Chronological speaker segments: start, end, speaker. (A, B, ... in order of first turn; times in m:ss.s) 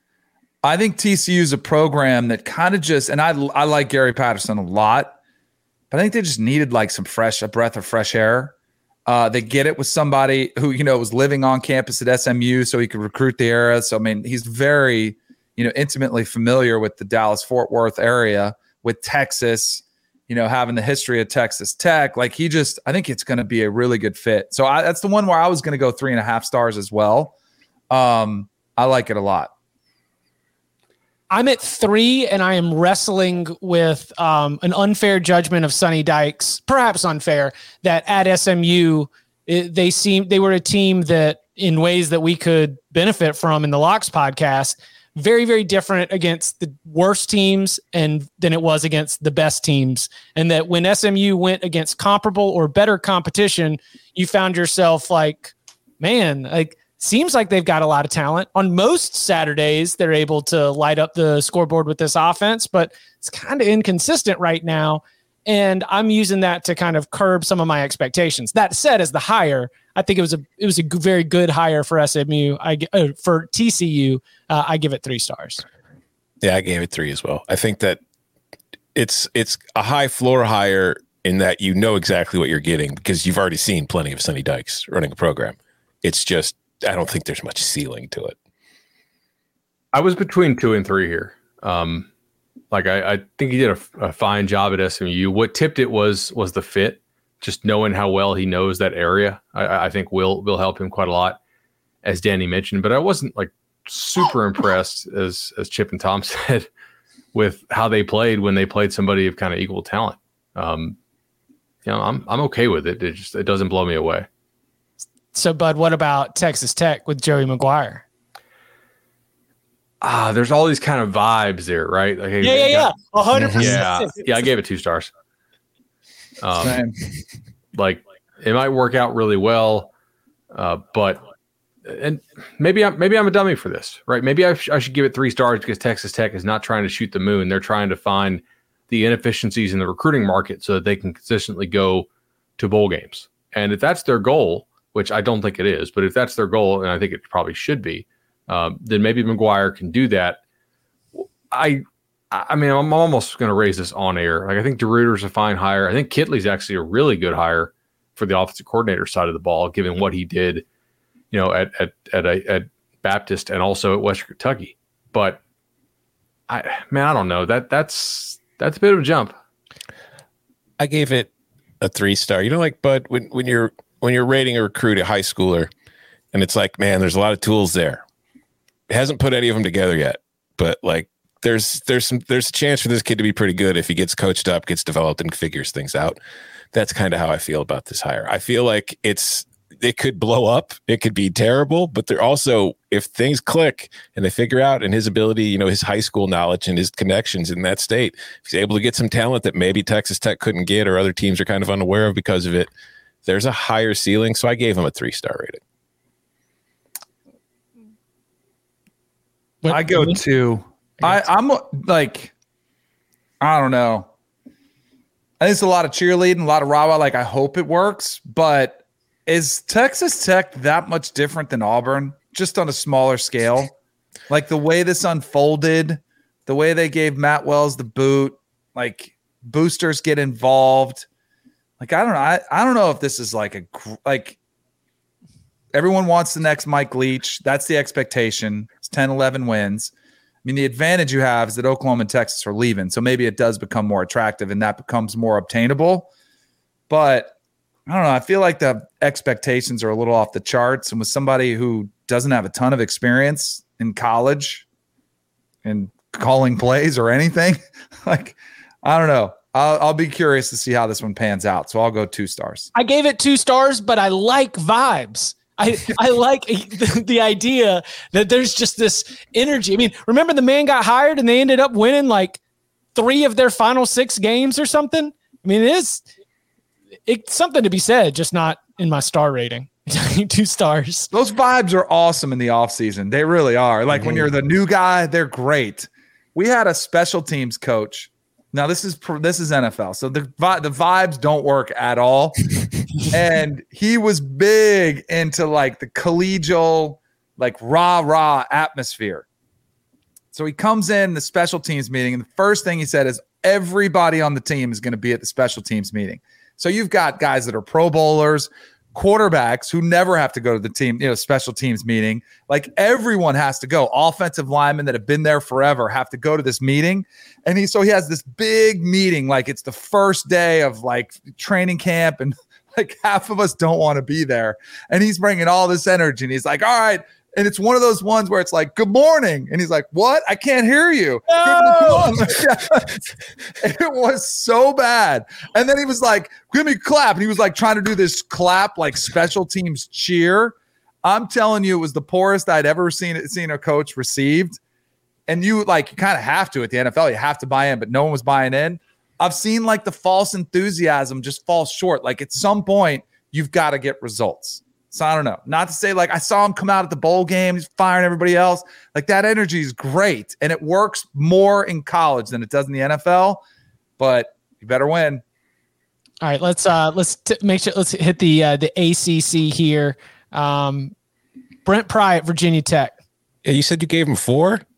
0:00.6-0:05.2 A
0:05.9-0:08.5 A
0:09.1-0:27.3 A
0:27.9-0:29.5 A
0:31.3-1:15.6 B
1:16.4-1:18.0 C
1:18.9-1:28.4 C
1:29.9-1:32.1 D
1:32.7-1:41.4 D
1:42.0-1:46.7 D
1:47.3-1:51.0 D
1:51.8-1:54.3 D
1:55.3-1:58.0 B
2:00.0-2:02.9 D
2:02.4-2:04.4 B
2:03.4-2:03.8 C
2:03.6-2:05.1 D
2:06.4-2:06.8 D
2:06.6-2:07.0 A
2:07.7-2:09.9 D
2:10.5-2:11.2 D
2:11.8-2:22.1 D
2:22.6-2:30.4 D
2:31.1-2:40.6 D
2:41.3-2:45.4 D
2:46.5-2:49.3 D
2:50.8-2:51.3 C
2:51.8-2:55.7 C
2:56.3-2:58.0 C
2:58.9-3:06.2 C
3:06.7-3:22.7 C
3:23.2-3:25.6 C
3:29.6-3:30.2 B
3:29.7-3:32.3 A
3:33.4-3:34.1 A
3:35.4-3:43.7 A
3:44.3-3:51.0 A
3:51.8-3:54.4 A
3:55.7-3:59.9 A
4:00.4-4:06.1 A
4:06.9-4:07.3 A
4:07.9-4:14.6 A
4:15.6-4:22.7 A
4:22.7-4:32.4 B
4:32.9-4:36.0 B
4:37.1-4:41.1 B
4:41.1-4:59.2 A
5:00.3-5:33.0 A
5:31.3-5:32.2 B
5:33.6-5:44.6 A
5:45.3-6:03.4 A
6:04.0-6:05.2 A
6:06.2-6:10.9 B
6:11.6-6:12.9 B
6:13.4-6:14.6 C